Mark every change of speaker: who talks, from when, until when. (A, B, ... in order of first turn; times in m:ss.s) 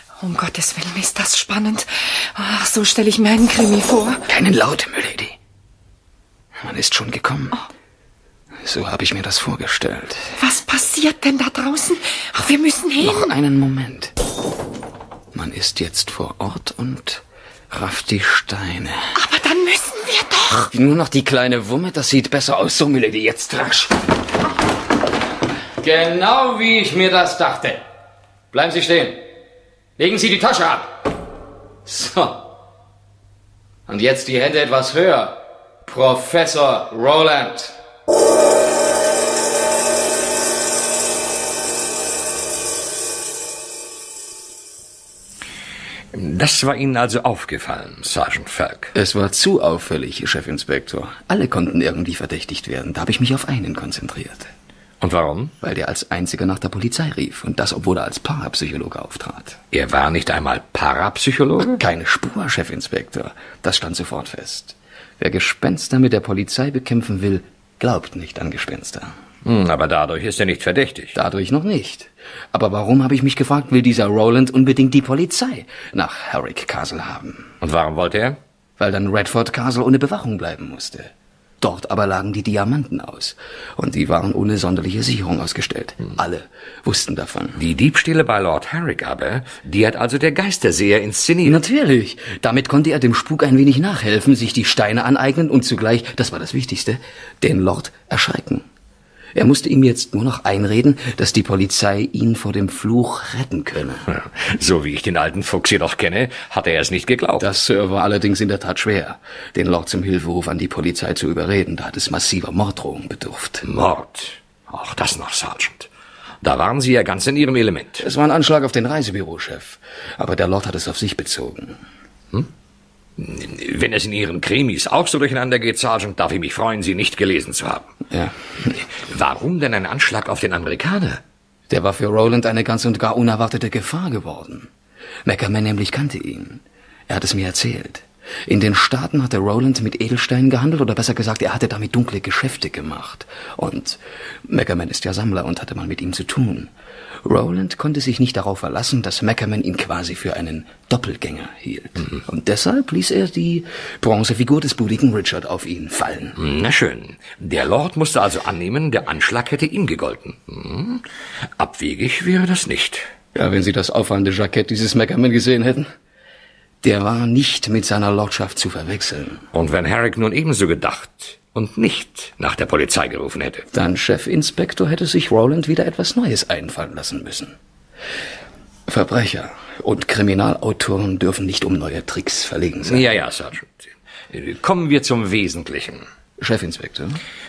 0:00.2-0:04.2 A
0:04.3-0:05.3 B
0:06.6-0:07.6 B
0:08.6-0:10.3 B
0:10.4-0:13.3 A
0:13.0-0:14.1 B
0:15.3-0:19.1 B
0:19.1-0:20.7 A
0:20.7-0:24.0 B
0:25.8-0:27.8 B
0:28.5-0:29.3 B
0:30.0-0:31.1 B
0:31.8-0:32.5 B
0:33.9-0:37.8 B
0:46.1-0:48.9 C
0:48.9-0:54.5 B
0:55.0-0:55.5 C
0:55.6-0:59.6 B
0:59.7-1:01.7 C
1:01.7-1:09.1 B
1:09.4-1:11.2 C
1:11.1-1:17.5 B
1:17.6-1:18.4 C
1:18.8-1:27.6 B
1:27.6-1:31.6 C
1:31.4-1:38.7 B
1:39.3-1:44.1 B
1:44.1-1:47.4 C
1:47.4-1:53.6 B
1:53.6-1:55.9 C
1:56.4-1:58.0 C
1:58.0-2:01.8 B
2:03.2-2:07.9 C
2:08.1-2:08.8 B
2:09.0-2:11.2 C
2:11.7-2:14.7 B
2:15.2-2:26.7 B
2:27.2-2:36.4 B
2:36.4-2:41.0 C
2:41.6-2:43.1 C
2:43.3-2:45.9 B
2:46.8-2:49.4 B
2:49.5-2:53.7 C
2:53.7-2:57.6 B
2:58.9-3:03.1 B
3:02.8-3:06.0 C
3:06.4-3:07.2 B